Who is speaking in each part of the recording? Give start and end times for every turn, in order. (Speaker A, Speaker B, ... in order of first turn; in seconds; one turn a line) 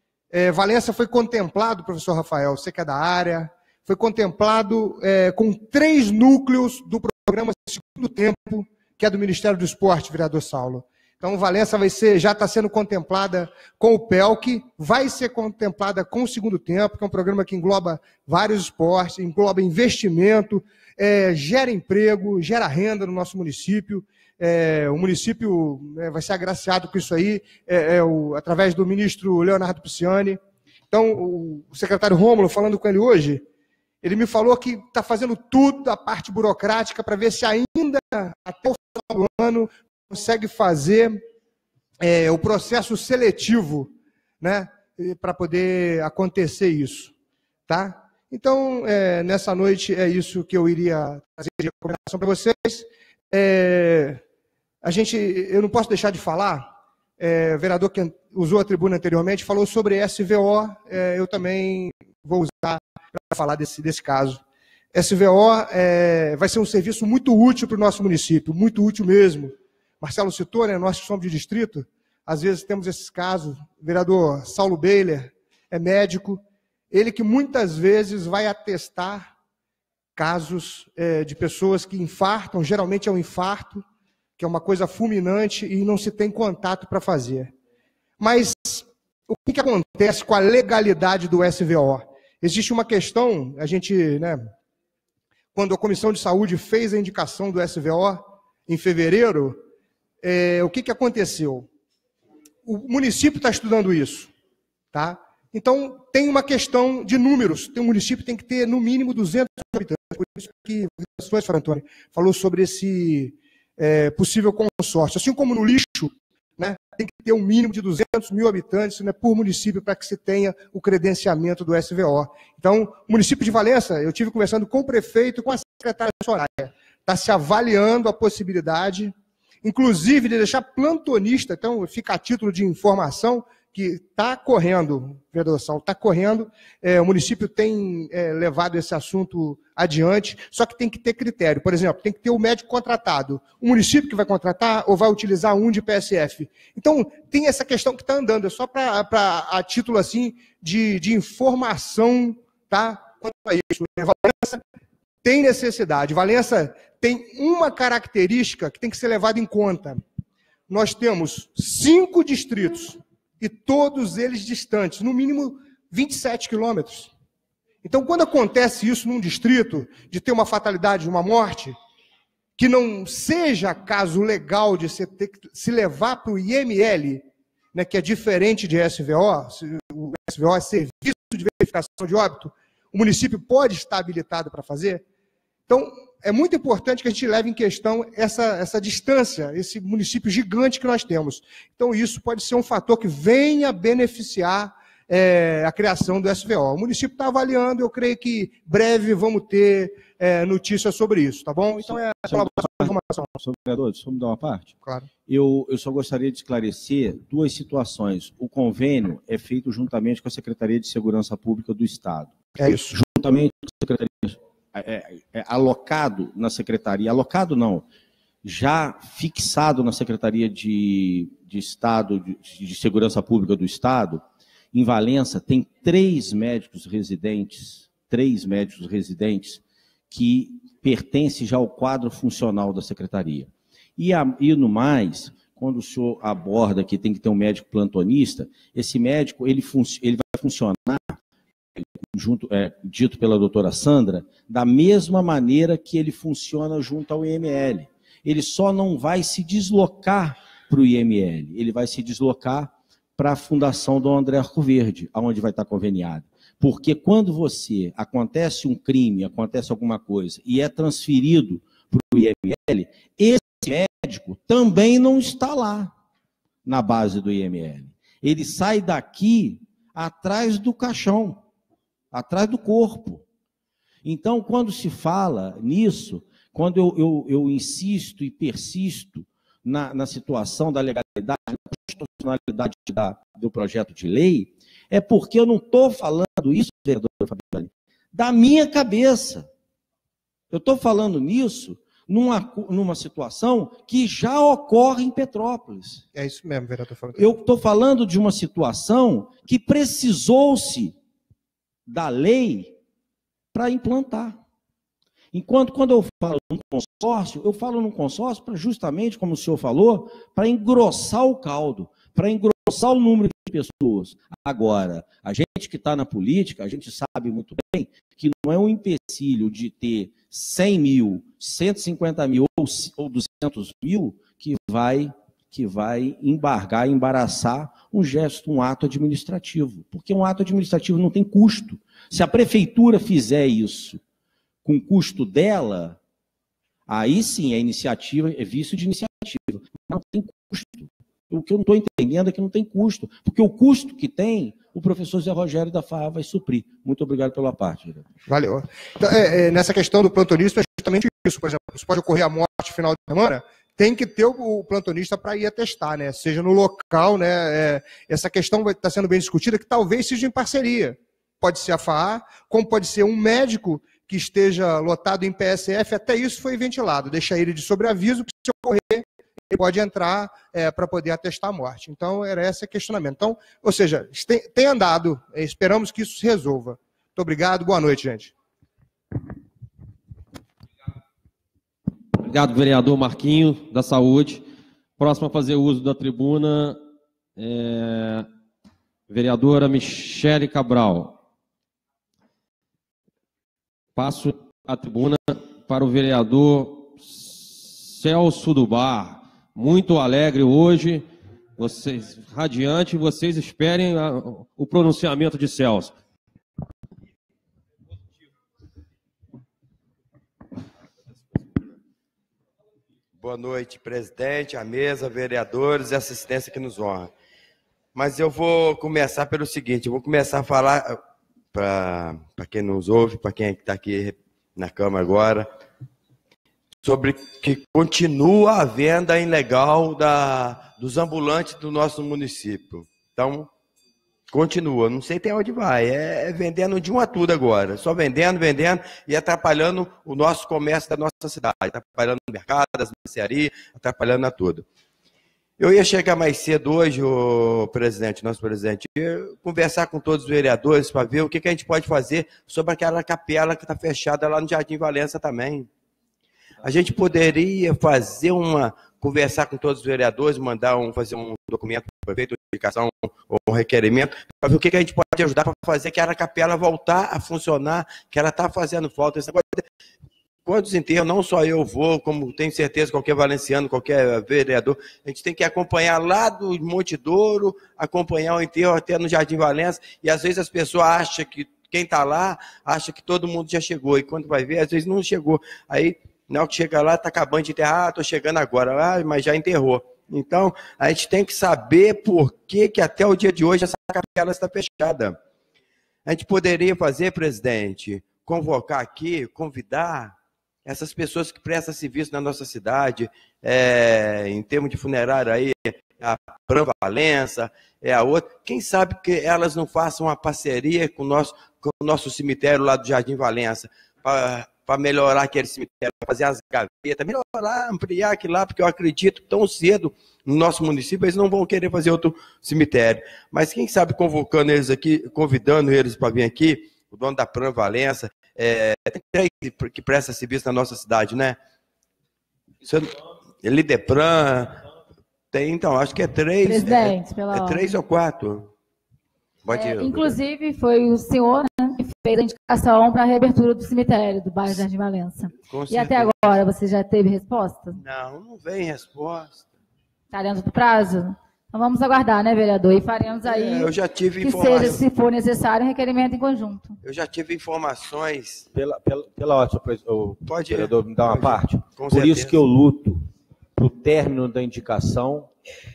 Speaker A: 0.3-30.4
Speaker A: 30.9-33.5
Speaker A: 34.0-41.2
Speaker A: 42.0-47.1
Speaker A: 47.7-54.2
Speaker A: 54.8-64.4
Speaker A: 64.9-79.3
Speaker A: 80.2-83.8
Speaker A: 84.4-87.5
Speaker A: 88.2-94.5
Speaker A: 95.5-99.6
Speaker A: 100.2-101.7
Speaker A: 102.7-104.3
Speaker A: 104.9-154.6
Speaker A: 155.2-160.1
Speaker A: 160.7-167.1
Speaker A: 167.8-171.8
Speaker A: 172.6-185.1
Speaker A: 185.7-203.3
Speaker B: 201.8-204.7
Speaker A: 204.8-205.1
Speaker B: 205.3-217.8
Speaker A: 212.6-213.0
Speaker B: 218.4-241.2
Speaker B: 241.8-265.9
Speaker B: 266.6-271.4
Speaker B: 272.1-273.2
Speaker B: 274.1-289.5
Speaker B: 290.5-296.0
Speaker A: 296.1-297.3
Speaker B: 297.1-300.9
Speaker B: 301.9-302.8
Speaker B: 303.5-304.4
Speaker B: 305.3-334.0
Speaker B: 334.6-336.0
Speaker B: 336.9-348.1
Speaker A: 348.3-378.3
Speaker C: 382.2-384.5
Speaker C: 385.0-386.8
Speaker C: 387.4-388.3
Speaker C: 389.1-391.2
Speaker C: 394.0-406.0
Speaker D: 413.2-417.1
Speaker D: 417.9-421.0
Speaker D: 421.5-425.5
Speaker D: 426.8-433.5
Speaker D: 434.3-444.6
Speaker D: 445.6-455.7
Speaker D: 456.6-469.7
Speaker D: 470.5-495.2
Speaker D: 496.1-500.1
Speaker D: 500.7-531.4
Speaker D: 532.6-534.6
Speaker D: 535.3-538.5
Speaker E: 536.4-537.8
Speaker D: 539.5-540.2
Speaker E: 539.5-547.8
Speaker D: 545.5-546.3
Speaker D: 547.8-549.5
Speaker E: 550.1-556.8
Speaker D: 553.3-554.9
Speaker D: 556.8-558.5
Speaker B: 558.5-563.0
Speaker D: 560.2-562.4
Speaker B: 563.6-565.3